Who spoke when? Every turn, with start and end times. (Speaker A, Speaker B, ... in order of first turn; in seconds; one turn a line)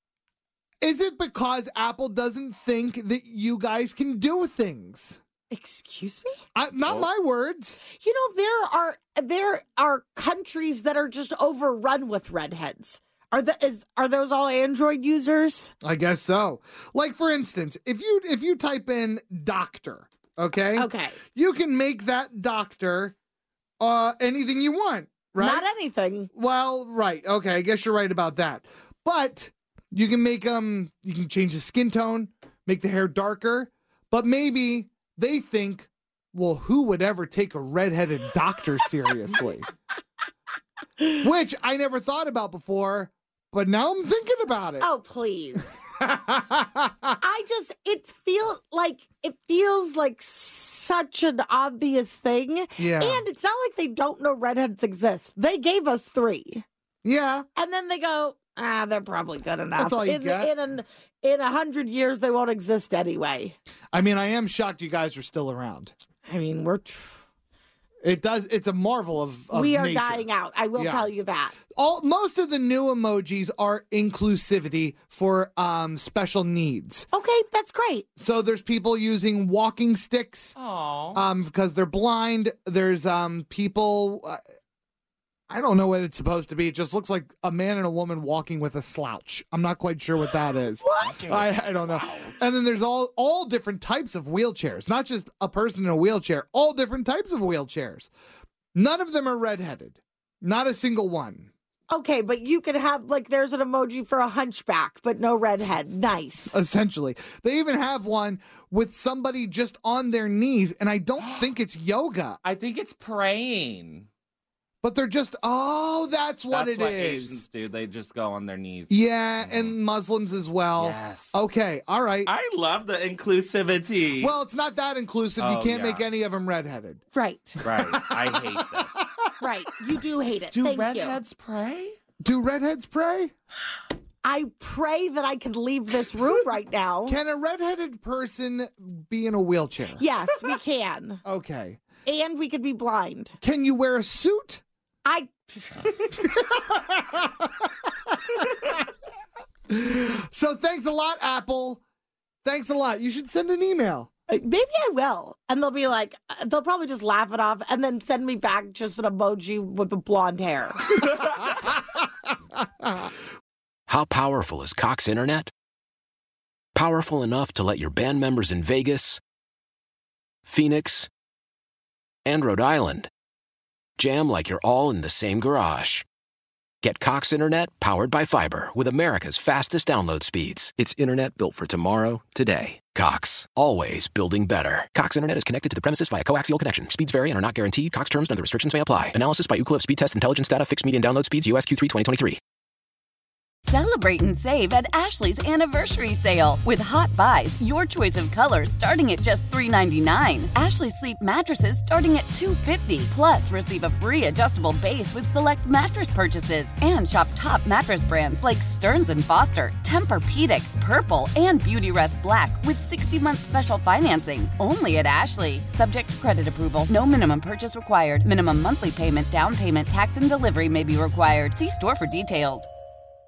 Speaker A: 0.8-5.2
Speaker B: 5.5-6.4
Speaker A: 6.5-7.8
Speaker B: 7.8-15.7
Speaker A: 15.8-23.1
Speaker B: 20.8-21.2
Speaker A: 23.8-25.7
Speaker B: 25.4-26.3
Speaker A: 26.3-39.7
Speaker A: 41.2-44.9
Speaker B: 44.8-45.8
Speaker A: 46.0-47.1
Speaker B: 47.2-56.6
Speaker A: 52.8-53.2
Speaker A: 57.0-57.5
Speaker B: 57.6-63.5
Speaker A: 59.8-60.5
Speaker A: 63.9-65.9
Speaker B: 66.3-67.2
Speaker A: 68.0-71.1
Speaker B: 69.5-71.6
Speaker A: 71.7-77.1
Speaker B: 77.1-78.1
Speaker A: 78.2-80.5
Speaker C: 80.6-81.2
Speaker A: 81.1-84.4
Speaker A: 85.5-98.1
Speaker C: 90.8-92.3
Speaker A: 98.8-101.5
Speaker B: 101.9-106.5
Speaker A: 106.5-112.4
Speaker C: 112.4-114.1
Speaker A: 114.8-117.4
Speaker C: 116.5-119.8
Speaker A: 118.9-122.3
Speaker C: 120.8-121.4
Speaker C: 122.3-124.3
Speaker A: 124.2-127.0
Speaker C: 125.4-126.1
Speaker B: 127.1-127.6
Speaker C: 127.6-129.0
Speaker A: 127.7-129.3
Speaker B: 129.4-131.2
Speaker C: 130.5-132.0
Speaker A: 132.2-133.3
Speaker B: 134.2-137.2
Speaker A: 137.1-140.1
Speaker B: 140.0-141.2
Speaker A: 141.2-141.8
Speaker B: 142.1-143.4
Speaker A: 143.4-144.6
Speaker B: 145.1-145.9
Speaker A: 146.5-147.3
Speaker A: 149.7-151.8
Speaker A: 152.4-154.1
Speaker B: 154.3-160.9
Speaker D: 163.9-165.5
Speaker D: 166.8-169.2
Speaker D: 170.4-171.1
Speaker D: 172.2-173.1
Speaker D: 174.0-176.1
Speaker D: 176.8-192.4
Speaker E: 193.7-222.7